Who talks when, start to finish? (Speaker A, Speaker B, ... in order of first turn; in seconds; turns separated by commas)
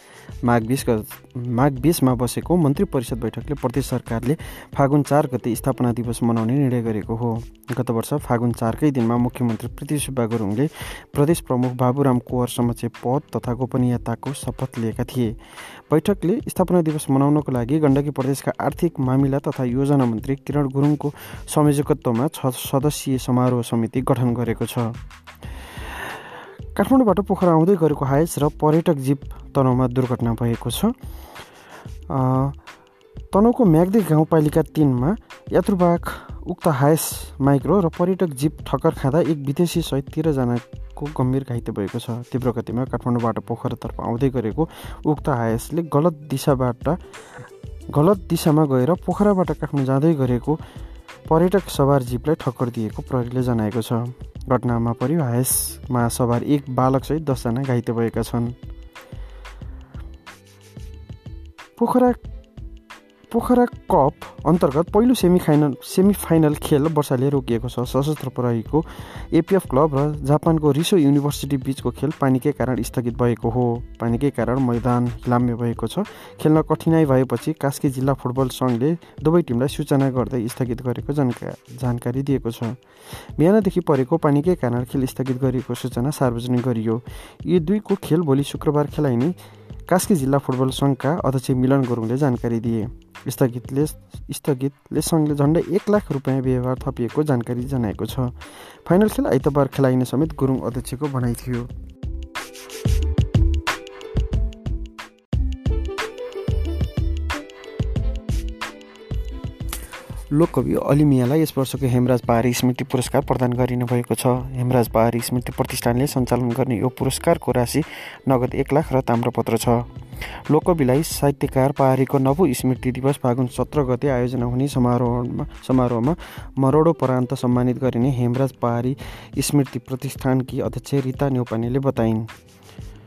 Speaker A: 0.4-15.4, Speaker A: 15.9-25.0, Speaker A: 26.7-30.9, Speaker A: 32.1-32.6, Speaker A: 33.3-47.0, Speaker A: 47.9-50.6, Speaker A: 51.3-58.5, Speaker A: 61.8-62.2, Speaker A: 63.3-82.8, Speaker A: 83.4-101.7, Speaker A: 110.3-132.3